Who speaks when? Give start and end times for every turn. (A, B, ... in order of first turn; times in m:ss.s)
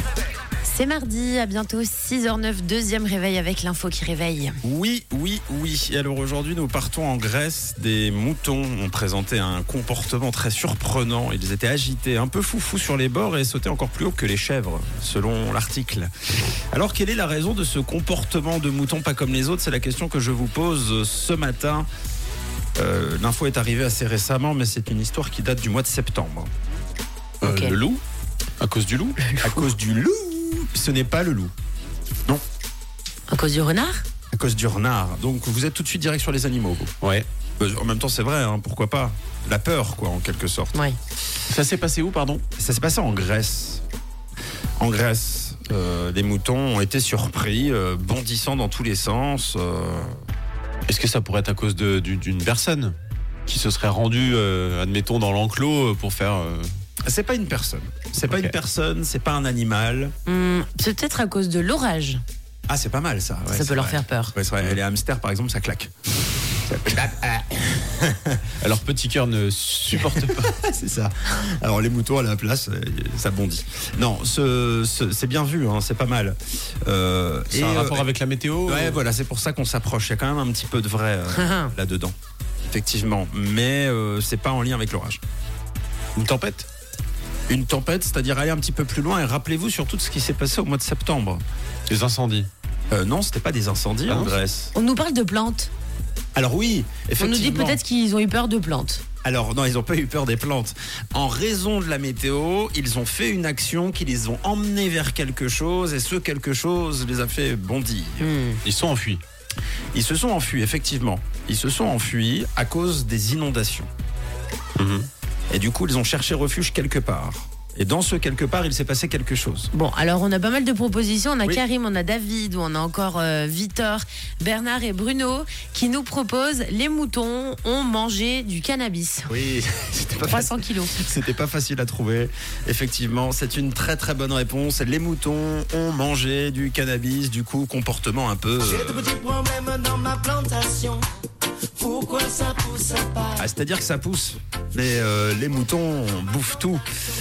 0:00.6-0:04.6 A
0:04.6-0:16.1 B
0:16.7-0:21.9 B
0:22.8-0:26.5 B
0:27.4-0:28.0 C
0:27.4-0:27.8 A
0:28.6-0:29.2 C
0:29.2-0:29.7 A
0:29.4-0:31.5 B
0:33.3-0:34.0 A
0:34.3-0:36.9 B
0:37.0-0:37.3 C
0:37.6-0:40.8 B
0:41.4-0:42.4 C
0:42.6-0:43.8 B
0:44.8-0:50.2 B
0:50.9-0:53.0 C
0:53.5-0:56.7 C
0:57.0-1:00.1 B
0:58.3-0:58.5 C
1:00.2-1:02.2 A
1:02.7-1:08.5 B
1:03.5-1:04.3 A
1:08.6-1:10.6 C
1:09.9-1:18.0 B
1:17.5-1:19.0 C
1:18.7-1:22.1 B
1:21.3-1:21.7 A
1:22.7-1:25.2 B
1:26.2-1:26.7 C
1:27.5-1:31.4 B
1:31.9-1:32.5 C
1:32.9-1:34.7 B
1:34.1-1:34.3 C
1:34.7-1:35.7 A
1:36.3-1:37.8 B
1:37.2-1:39.0 A
1:39.2-1:48.3 B
1:48.2-1:48.6 A
1:48.6-1:49.2 C
1:49.9-1:53.9 B
1:54.8-1:55.1 C
1:55.5-1:59.7 B
1:59.7-2:09.3 A
2:09.3-2:19.1 B
2:10.2-2:11.0 A
2:18.7-2:21.1 D
2:21.8-2:23.4 D
2:23.4-2:26.8 B